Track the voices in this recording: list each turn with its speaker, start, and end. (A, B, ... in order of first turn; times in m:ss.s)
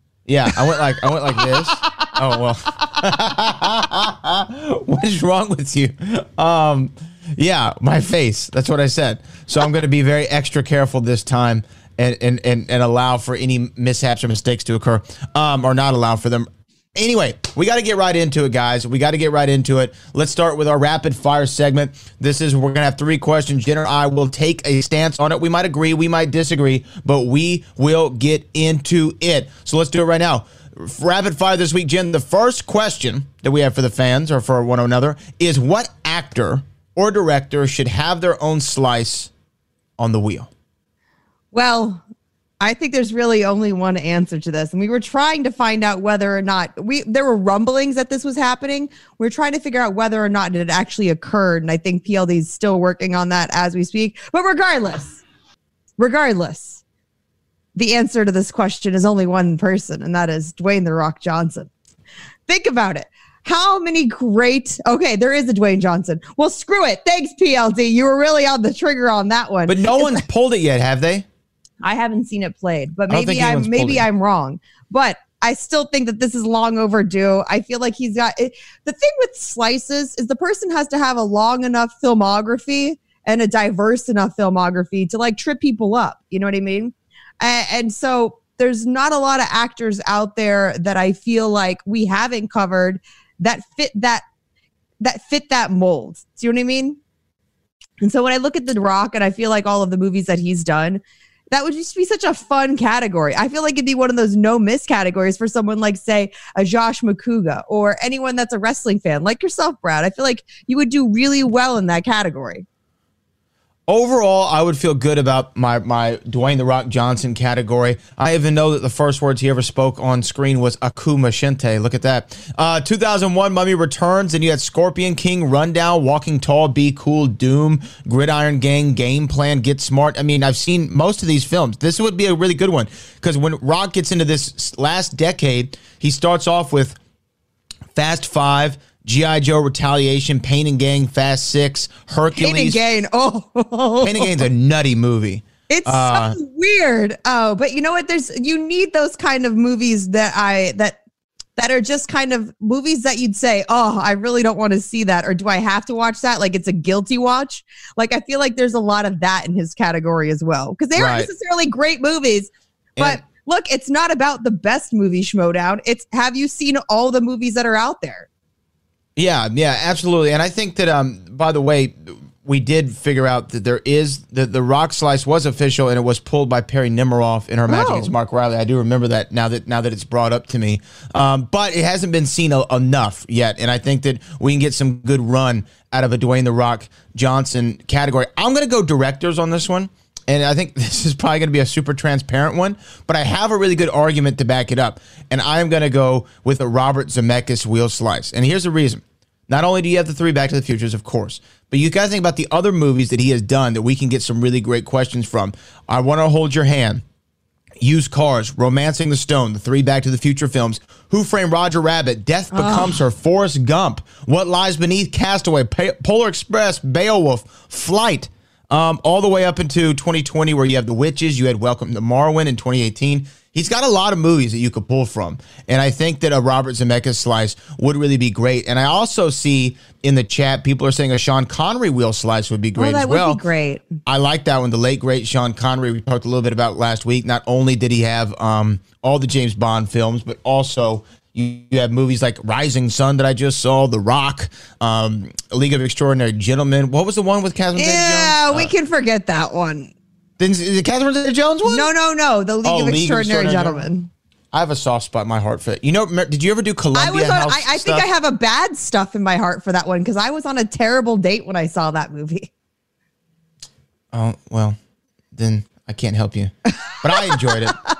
0:00.3-0:39.3 A
0:00.5-0:02.1 B
0:40.0-0:40.5 A
0:41.5-0:42.0 B
0:42.6-0:55.2 B
0:56.0-0:56.8 B
0:57.8-1:01.7 B
1:02.5-1:10.2 B
1:09.7-1:11.2 A
1:11.8-1:34.2 B
1:13.1-1:14.1 A
1:35.0-1:37.0 B
1:38.0-1:52.6 B
1:53.9-2:17.0 A
2:17.9-2:22.8 A
2:22.4-2:24.4 B
2:24.0-2:26.4 A
2:25.7-2:31.0 B
2:31.6-2:48.3 B
2:40.9-2:41.3 A
2:43.0-2:43.2 A
2:49.2-3:27.0 A
2:57.7-2:58.1 B
3:27.8-3:53.4 A
3:32.5-3:33.0 B
3:52.8-3:53.8 B
3:54.0-4:08.7 A
4:07.8-4:09.9 B
4:10.4-4:11.9 A
4:11.7-4:14.1 B
4:12.6-4:13.9 A
4:14.5-4:18.1 A
4:16.9-4:22.5 B
4:24.1-4:24.8 A
4:25.3-4:27.8 A